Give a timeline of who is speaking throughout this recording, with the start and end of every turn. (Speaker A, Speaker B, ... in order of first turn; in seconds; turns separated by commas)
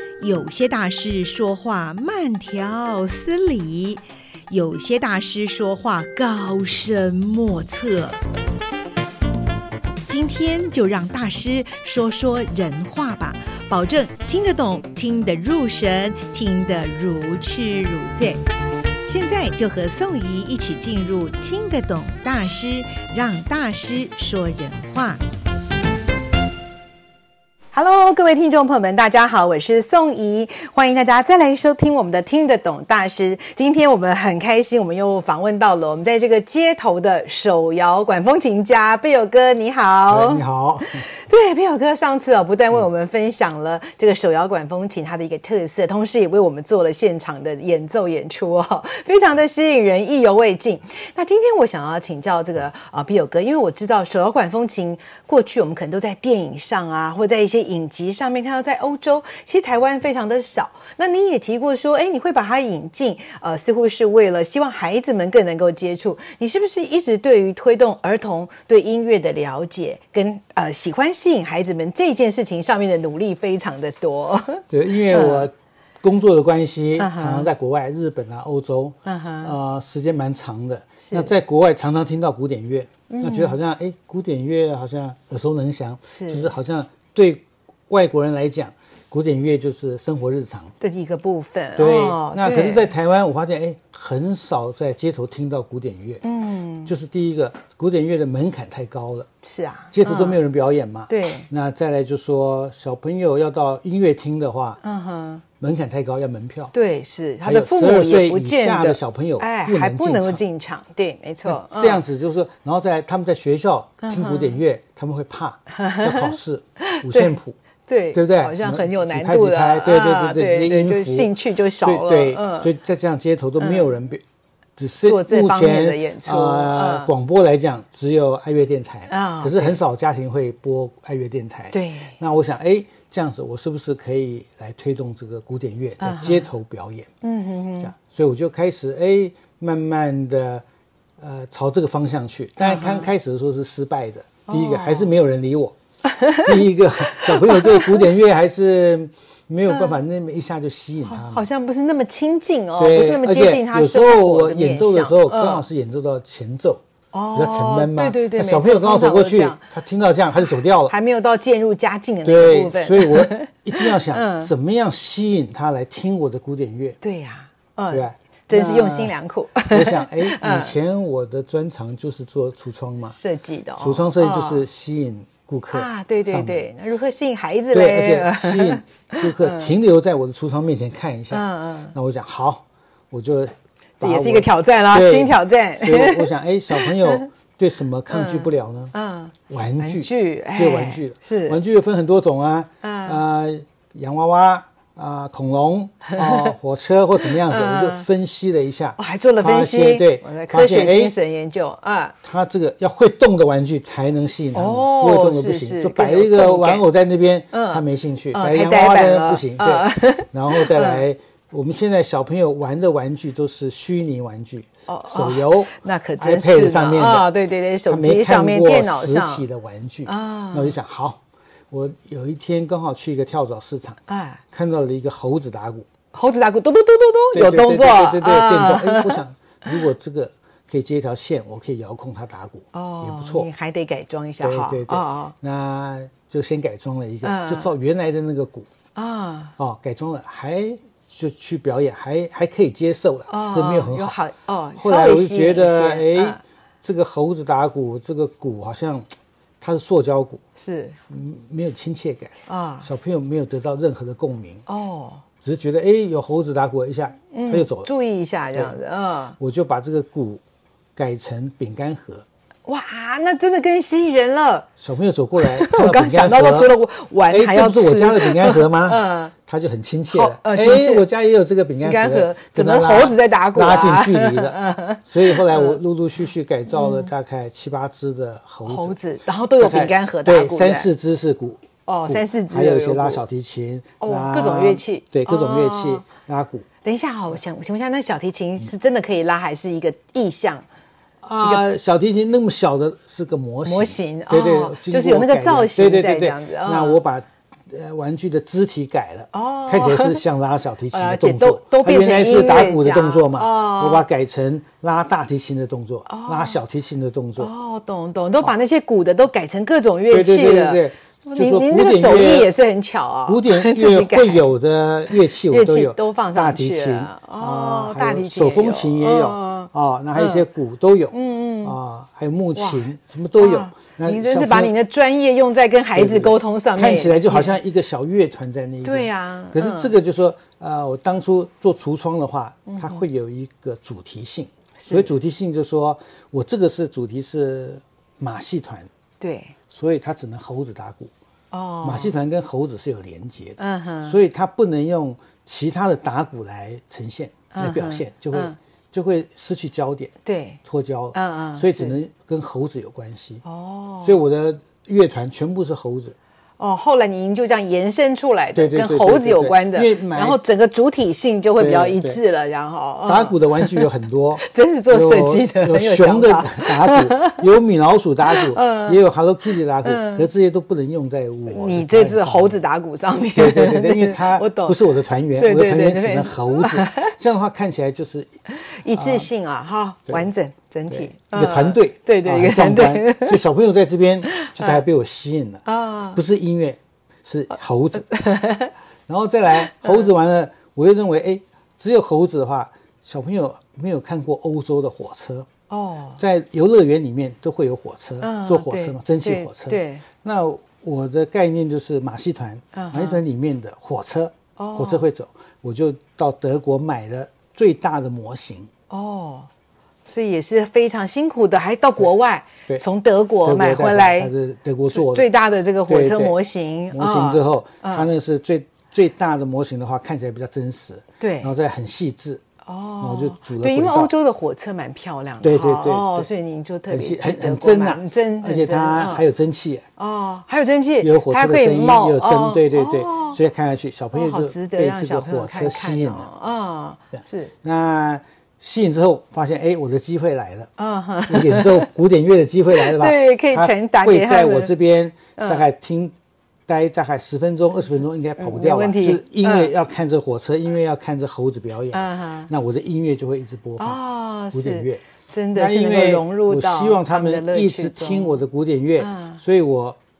Speaker A: 0.2-8.2, Speaker A: 10.1-18.4, Speaker A: 19.1-25.2, Speaker B: 27.7-75.5, Speaker C: 40.1-41.0, Speaker C: 74.7-90.7, Speaker B: 77.0-77.5, Speaker B: 79.0-79.5, Speaker B: 83.1-83.6, Speaker B: 86.1-86.5, Speaker B: 90.8-92.8, Speaker C: 91.8-96.2, Speaker B: 96.2-96.9, Speaker C: 96.8-99.3, Speaker B: 99.4-100.4, Speaker C: 99.9-104.8, Speaker B: 101.1-101.5, Speaker B: 104.8-105.4, Speaker C: 105.6-106.7, Speaker B: 106.7-112.0, Speaker C: 107.4-110.4, Speaker C: 111.4-117.6, Speaker B: 114.0-114.6, Speaker B: 115.7-122.7, Speaker C: 118.1-124.2, Speaker B: 123.6-123.9, Speaker C: 124.8-137.1, Speaker B: 125.0-127.1, Speaker B: 129.1-129.8, Speaker B: 131.7-132.1, Speaker B: 136.0-136.5, Speaker B: 137.2-137.9, Speaker C: 137.8-140.6, Speaker C: 141.2-145.7, Speaker B: 142.6-143.1, Speaker B: 144.5-145.1, Speaker B: 146.1-148.0, Speaker C: 146.4-151.4, Speaker B: 149.7-149.9, Speaker B: 151.1-155.7, Speaker C: 152.8-156.8, Speaker B: 157.1-159.6, Speaker C: 157.3-160.9, Speaker B: 160.8-164.5, Speaker C: 162.2-167.0, Speaker B: 167.0-170.7, Speaker C: 167.9-169.1, Speaker C: 169.7-173.2, Speaker B: 173.1-174.6, Speaker C: 173.8-176.7, Speaker B: 175.7-179.7, Speaker C: 177.7-188.9, Speaker B: 181.3-181.9, Speaker B: 184.0-187.3, Speaker B: 188.1-191.6, Speaker C: 189.5-201.1, Speaker B: 192.8-193.2, Speaker B: 196.1-196.5, Speaker B: 197.2-198.1, Speaker B: 199.0-202.1, Speaker C: 202.2-224.0, Speaker B: 204.5-206.8, Speaker B: 207.5-211.1, Speaker B: 214.9-219.4, Speaker B: 220.1-220.8, Speaker B: 224.1-224.4, Speaker C: 224.5-225.9, Speaker B: 226.1-229.8, Speaker C: 227.3-233.5, Speaker B: 232.7-235.3, Speaker C: 234.4-238.7, Speaker B: 237.2-237.7, Speaker B: 238.9-239.5, Speaker C: 239.6-244.2, Speaker B: 243.3-246.4, Speaker C: 244.8-249.1, Speaker C: 249.6-250.4, Speaker B: 250.6-251.0, Speaker C: 251.1-254.6, Speaker B: 252.4-252.9, Speaker B: 254.7-255.2, Speaker C: 255.4-257.9, Speaker B: 257.3-259.4, Speaker C: 259.4-260.4, Speaker C: 260.9-262.2, Speaker B: 262.6-264.7, Speaker C: 264.8-266.8, Speaker B: 265.4-269.3, Speaker C: 267.3-279.0, Speaker B: 270.1-271.0, Speaker B: 271.8-275.8, Speaker B: 276.7-277.1, Speaker B: 278.6-280.9, Speaker C: 279.6-286.6, Speaker B: 281.9-283.2, Speaker B: 284.0-286.0, Speaker B: 286.8-290.6, Speaker C: 291.2-307.5, Speaker B: 293.6-297.0, Speaker B: 299.3-300.2, Speaker B: 300.9-304.1, Speaker B: 306.1-306.6, Speaker B: 307.4-314.5, Speaker C: 310.1-312.5, Speaker C: 313.2-324.7, Speaker B: 315.1-320.5, Speaker B: 321.1-321.8, Speaker B: 322.5-327.6, Speaker C: 325.9-338.9, Speaker B: 328.8-329.9, Speaker B: 332.7-333.0, Speaker B: 334.8-335.1, Speaker B: 339.2-339.5, Speaker C: 339.7-341.1, Speaker B: 341.5-342.1, Speaker C: 341.8-350.1, Speaker B: 343.6-344.2, Speaker B: 347.5-348.6, Speaker B: 350.2-350.6, Speaker C: 350.6-353.4, Speaker B: 351.1-352.0, Speaker B: 353.4-354.2, Speaker C: 354.0-356.1, Speaker B: 356.6-363.9, Speaker C: 358.5-360.4, Speaker C: 361.6-362.2, Speaker C: 363.0-372.6, Speaker B: 364.4-367.4, Speaker B: 368.3-369.0, Speaker B: 369.8-370.3, Speaker B: 371.5-374.8, Speaker C: 373.3-378.3, Speaker B: 375.3-377.1, Speaker B: 378.6-383.4, Speaker C: 378.9-379.3, Speaker C: 380.9-388.2, Speaker B: 384.3-384.8, Speaker B: 385.6-386.2, Speaker B: 388.1-388.7, Speaker C: 389.1-395.5, Speaker B: 389.6-390.0, Speaker B: 395.7-396.2, Speaker C: 396.2-408.7, Speaker B: 398.2-400.0, Speaker B: 402.7-403.2, Speaker B: 404.6-405.0, Speaker B: 408.9-409.5, Speaker B: 410.1-414.3, Speaker C: 413.4-415.3, Speaker B: 414.9-418.1, Speaker C: 415.9-416.4, Speaker C: 416.9-422.4, Speaker B: 421.2-421.5, Speaker B: 422.6-429.2, Speaker C: 423.0-424.1, Speaker C: 425.4-426.3, Speaker C: 426.9-429.9, Speaker B: 430.0-433.4, Speaker C: 431.0-436.3, Speaker B: 434.1-437.5, Speaker C: 437.2-440.7, Speaker B: 440.8-441.9, Speaker C: 441.3-446.1, Speaker B: 442.7-444.7, Speaker B: 445.4-445.6, Speaker C: 446.7-455.0, Speaker B: 448.4-449.7, Speaker B: 451.9-452.5, Speaker B: 453.8-458.4, Speaker C: 455.5-460.0, Speaker B: 459.0-459.4